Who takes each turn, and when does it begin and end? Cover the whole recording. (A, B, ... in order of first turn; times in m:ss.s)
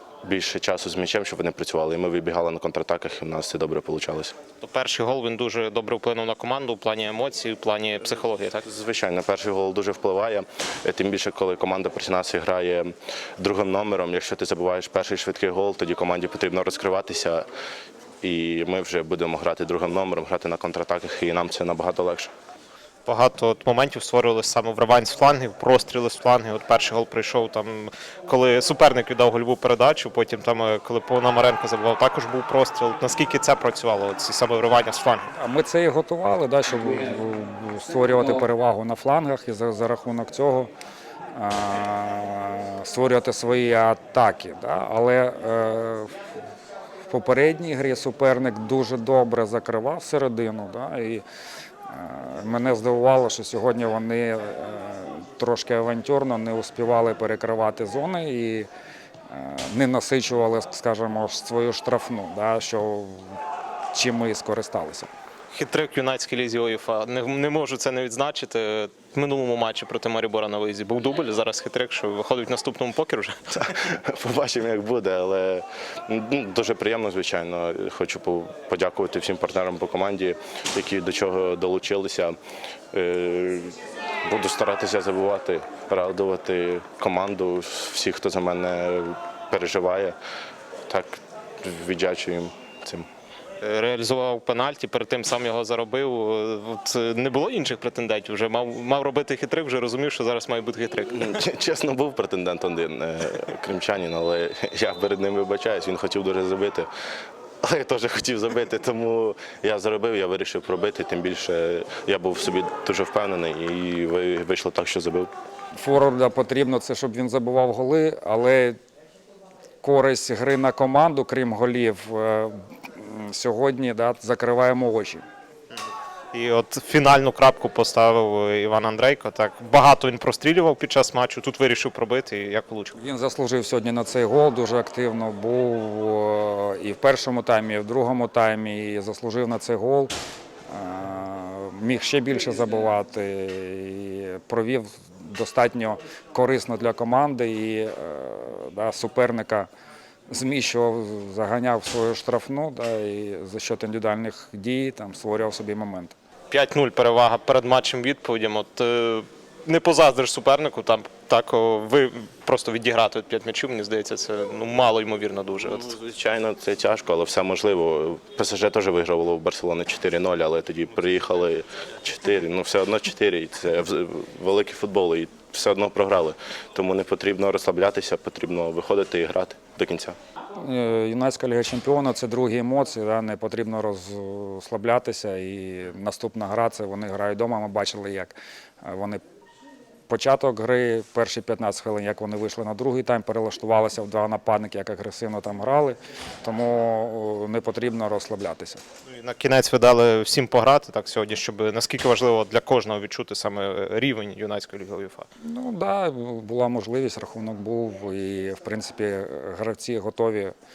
0:00.2-0:04.3 A
0:04.6-0:08.6 B
0:08.6-0:17.4 A
0:18.2-0:22.3 A
0:23.0-0:35.2 B
0:35.3-0:40.7 C
0:41.3-0:46.2 C
0:47.1-0:51.2 C
0:51.9-0:58.7 C
0:59.3-1:03.4 C
1:03.9-1:05.1 C
1:05.5-1:13.4 B
1:13.6-1:22.4 A
1:22.9-1:30.2 A
1:30.9-1:33.1 A
1:33.6-1:41.3 B
1:41.1-1:46.9 A
1:47.6-1:55.3 A
1:55.8-1:58.8 C
1:59.8-2:05.2 C
2:06.3-2:13.0 B
2:13.0-2:20.1 C
2:20.7-2:29.7 C
2:30.3-2:36.1 C
2:36.5-2:45.9 B
2:45.6-3:00.2 A
3:00.6-3:09.2 C
3:10.1-3:18.8 C
3:19.1-3:25.2 B
3:25.4-3:30.5 C